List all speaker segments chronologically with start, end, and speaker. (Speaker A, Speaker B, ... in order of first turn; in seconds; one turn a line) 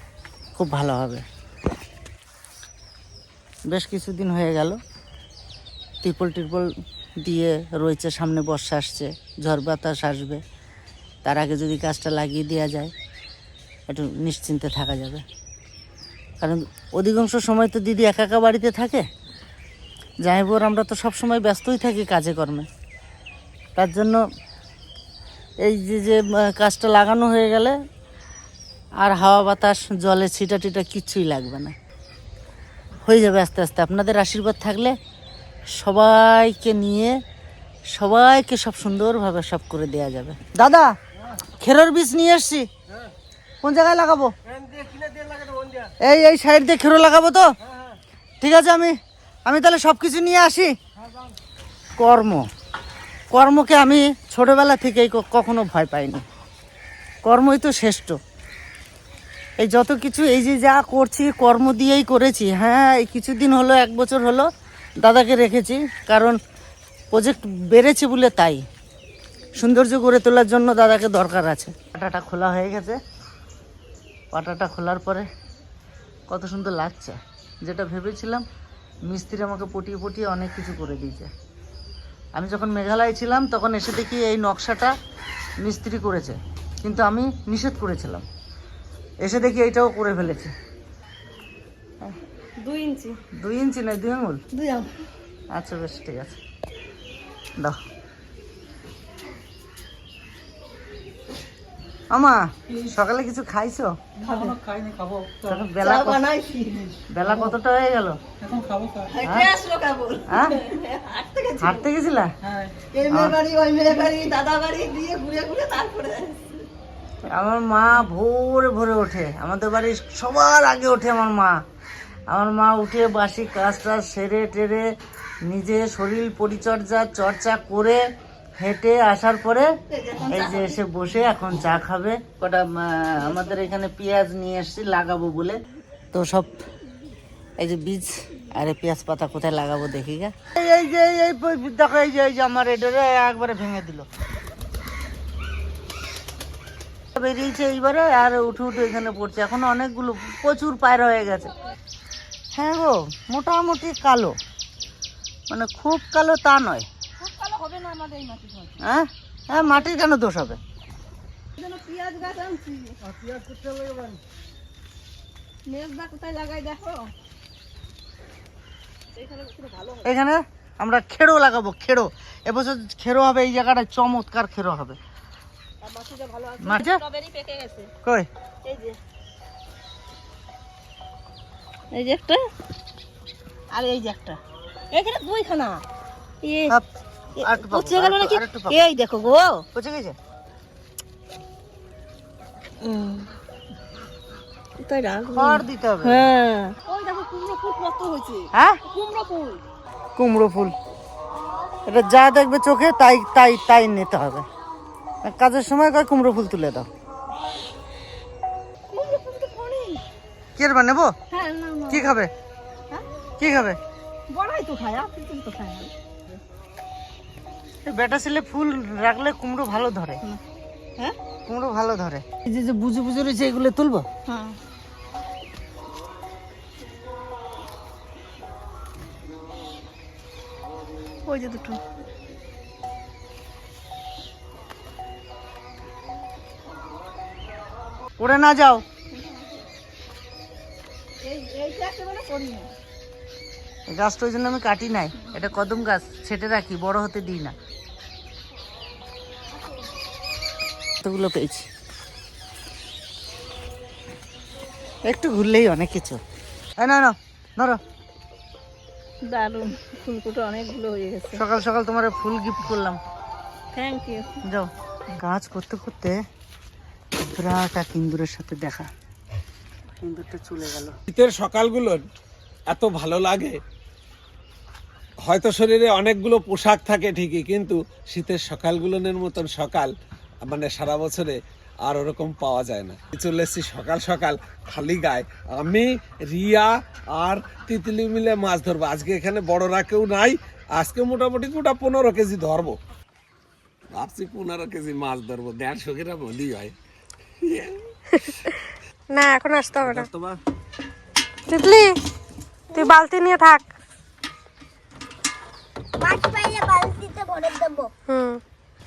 Speaker A: 0.6-1.2
Speaker A: 3.7-4.8
Speaker A: 6.0-6.7
Speaker A: 7.2-10.4
Speaker A: 11.2-12.9
Speaker A: 13.9-15.2
Speaker A: 16.4-19.1
Speaker A: 20.2-22.7
Speaker A: 23.8-24.2
Speaker A: 25.6-27.8
Speaker A: 29.0-31.7
Speaker A: 33.0-35.0
Speaker A: 35.7-37.2
Speaker A: 37.9-40.9
Speaker A: 41.6-42.7
Speaker A: 43.6-44.3
Speaker A: 46.0-47.5
Speaker A: 48.4-49.0
Speaker A: 49.5-50.7
Speaker A: 52.0-52.5
Speaker A: 53.3-56.2
Speaker A: 57.2-58.2
Speaker A: 59.6-64.5
Speaker A: 65.0-66.4
Speaker A: 67.1-68.6
Speaker A: 69.6-73.0
Speaker A: 74.3-75.3
Speaker A: 76.3-78.5
Speaker A: 79.1-81.3
Speaker A: 82.3-84.9
Speaker A: 85.6-88.2
Speaker A: 89.2-90.5
Speaker B: 92.6-93.2
Speaker A: 93.4-94.4
Speaker B: 94.5-94.9
Speaker A: 95.5-96.4
Speaker A: 102.1-103.9
Speaker B: 104.2-104.5
Speaker C: 104.2-105.6
Speaker A: 105.4-106.2
Speaker B: 105.8-107.0
Speaker A: 107.1-108.2
Speaker C: 107.3-107.5
Speaker C: 108.4-109.1
Speaker B: 109.1-111.9
Speaker A: 110.3-110.6
Speaker A: 111.6-112.3
Speaker B: 112.8-116.7
Speaker A: 113.1-113.4
Speaker A: 117.3-121.6
Speaker A: 122.3-124.8
Speaker A: 125.5-128.0
Speaker A: 128.6-129.7
Speaker B: 129.9-130.8
Speaker A: 130.3-135.6
Speaker A: 136.1-136.6
Speaker A: 137.6-144.1
Speaker A: 147.2-151.5
Speaker A: 152.5-154.4
Speaker A: 155.5-156.9
Speaker B: 157.2-158.8
Speaker A: 158.8-160.6
Speaker B: 161.6-163.0
Speaker A: 163.1-164.2
Speaker B: 165.7-167.1
Speaker B: 169.2-170.1
Speaker A: 170.1-175.0
Speaker B: 175.8-177.9
Speaker A: 176.6-177.0
Speaker B: 178.6-179.0
Speaker B: 181.9-182.4
Speaker B: 183.7-184.4
Speaker B: 184.9-185.8
Speaker B: 186.4-186.8
Speaker B: 187.4-189.7
Speaker A: 187.4-188.9
Speaker A: 189.8-190.2
Speaker B: 192.8-193.3
Speaker B: 194.8-199.6
Speaker A: 195.3-196.3
Speaker A: 198.5-198.8
Speaker A: 200.2-200.7
Speaker A: 201.9-204.5
Speaker A: 205.2-206.9
Speaker B: 208.9-210.0
Speaker A: 210.6-211.1
Speaker B: 211.3-212.1
Speaker A: 211.9-212.3
Speaker A: 213.4-213.8
Speaker B: 214.3-216.4
Speaker A: 217.8-220.2
Speaker A: 221.5-224.1
Speaker B: 224.3-224.6
Speaker B: 231.3-231.8
Speaker A: 238.2-238.8
Speaker B: 239.1-239.6
Speaker B: 241.2-242.7
Speaker A: 243.9-247.6
Speaker A: 251.0-251.7
Speaker A: 255.1-256.2
Speaker A: 256.8-257.8
Speaker B: 259.2-261.4
Speaker A: 261.3-263.0
Speaker B: 263.7-264.3
Speaker A: 264.5-266.2
Speaker A: 267.2-268.9
Speaker A: 270.0-270.9
Speaker D: 271.1-272.1
Speaker D: 272.7-273.6
Speaker D: 275.2-292.8
Speaker D: 293.9-296.8
Speaker D: 297.4-297.8
Speaker E: 298.1-298.4
Speaker E: 299.1-300.1
Speaker E: 301.5-302.0
Speaker E: 302.7-303.7
Speaker F: 306.0-307.9
Speaker E: 308.1-308.4